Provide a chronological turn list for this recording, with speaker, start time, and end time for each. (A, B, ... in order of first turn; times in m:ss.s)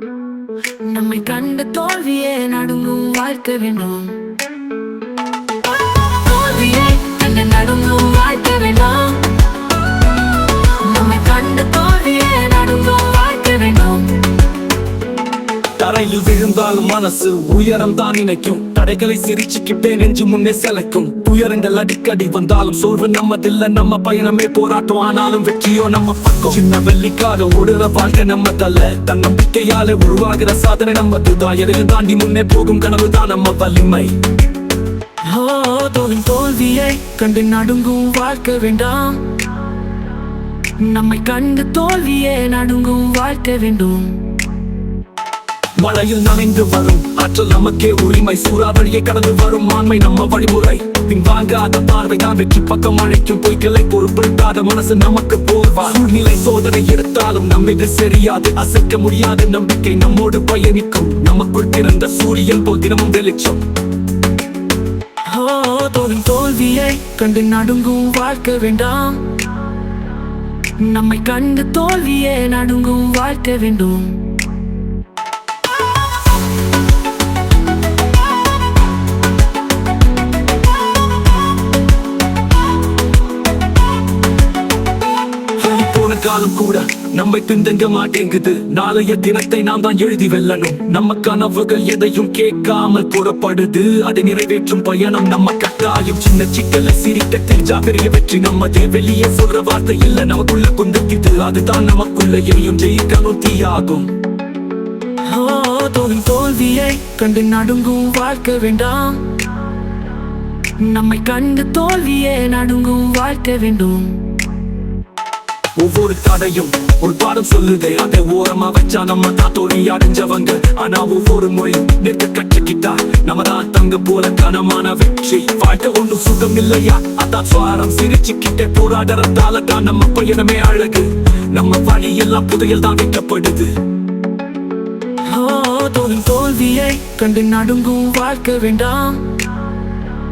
0:00.8-0:04.3 A
0:05.9-0:09.4 A
0:10.6-0:14.2 A
0:15.8-0:34.1 B
0:35.2-0:39.4 A
0:40.8-0:44.3 A
0:45.8-1:03.6 B
1:05.2-1:09.4 A
1:10.8-1:14.4 A
1:25.6-1:44.1 B
1:45.2-1:49.4 A
1:50.8-1:54.3 A
1:55.8-2:13.7 B
2:15.2-2:19.3 A